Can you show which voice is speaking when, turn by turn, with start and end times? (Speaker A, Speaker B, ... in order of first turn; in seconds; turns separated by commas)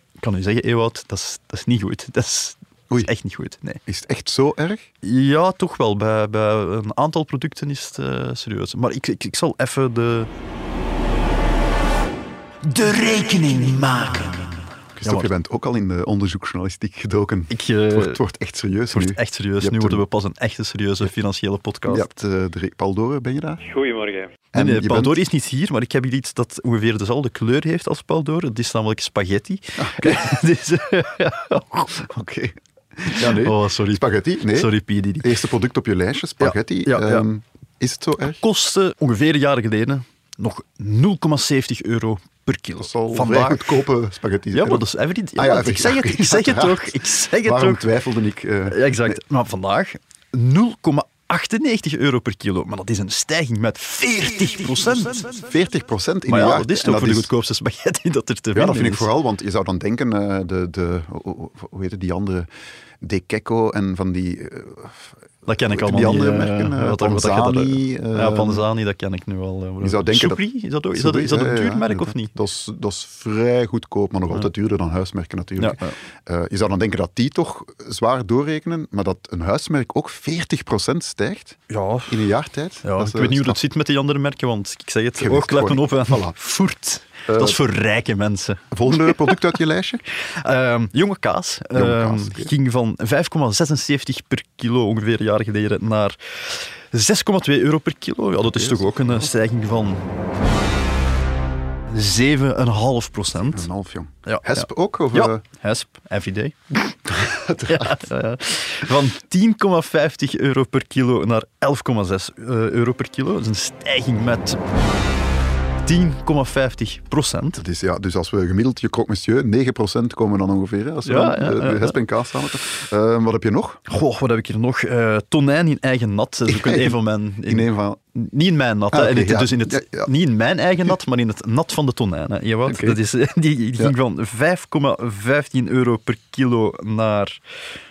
Speaker A: 0.2-3.8, Speaker B: 3.9-4.9, Speaker A: 5.0-10.3, Speaker A: 12.6-15.3, Speaker B: 15.0-20.1, Speaker A: 17.5-18.2, Speaker A: 18.9-22.1, Speaker B: 21.9-23.7, Speaker B: 24.5-25.2, Speaker A: 24.5-32.1, Speaker B: 29.8-30.3, Speaker B: 32.1-38.4, Speaker A: 33.1-35.3, Speaker A: 36.4-37.2, Speaker A: 38.4-43.6, Speaker B: 42.8-49.2, Speaker A: 44.5-47.9, Speaker A: 48.7-55.3, Speaker B: 55.3-57.3, Speaker A: 56.3-59.1, Speaker B: 58.5-62.5, Speaker B: 63.0-65.1, Speaker A: 65.4-72.3, Speaker B: 65.7-68.6, Speaker B: 69.8-81.6, Speaker A: 75.6-76.0, Speaker A: 81.7-82.3, Speaker B: 82.1-83.6, Speaker A: 82.8-89.3, Speaker B: 85.2-86.3, Speaker B: 87.3-87.6, Speaker B: 88.7-90.0, Speaker A: 90.2-100.0, Speaker B: 91.7-92.5, Speaker B: 98.4-99.2, Speaker A: 101.9-103.7, Speaker B: 103.4-105.4, Speaker A: 104.2-114.6, Speaker B: 107.1-108.0, Speaker A: 115.8-117.6, Speaker B: 117.5-123.8, Speaker A: 121.0-122.0, Speaker A: 123.9-137.4, Speaker B: 126.5-128.0, Speaker B: 128.9-130.1, Speaker B: 132.7-133.0